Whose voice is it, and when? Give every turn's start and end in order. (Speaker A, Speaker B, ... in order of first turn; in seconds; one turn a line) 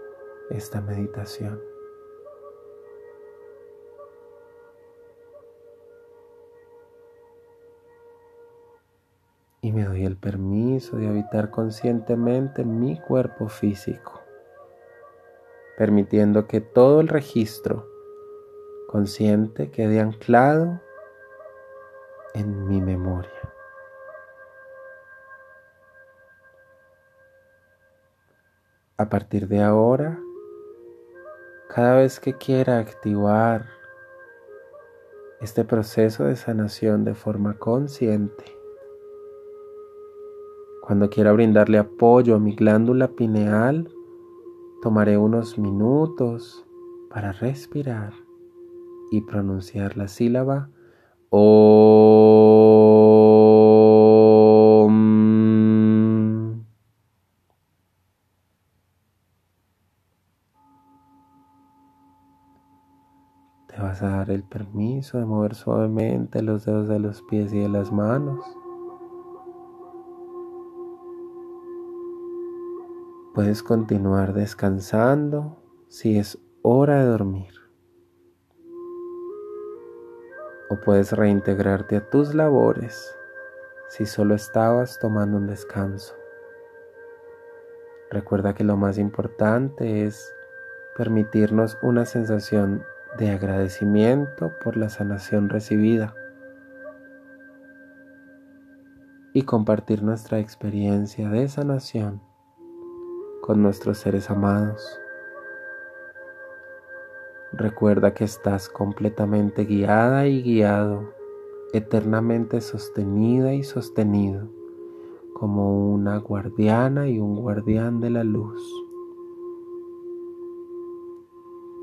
Speaker A: 0.5-1.6
Speaker A: 9.6-14.3
Speaker A: 15.8-17.9
Speaker A: 18.9-20.9
Speaker A: 22.3-23.5
Speaker A: 29.0-30.3
Speaker A: 31.7-33.7
Speaker A: 35.4-38.6
Speaker A: 40.8-43.9
Speaker A: 44.8-48.2
Speaker A: 49.1-50.7
Speaker A: 51.3-56.6
Speaker A: 63.7-68.6
Speaker A: 73.3-77.7
Speaker A: 80.7-83.2
Speaker A: 83.9-86.2
Speaker A: 88.1-90.4
Speaker A: 90.9-96.2
Speaker A: 99.3-102.2
Speaker A: 103.4-105.0
Speaker A: 107.5-111.2
Speaker A: 111.7-114.5
Speaker A: 115.3-118.8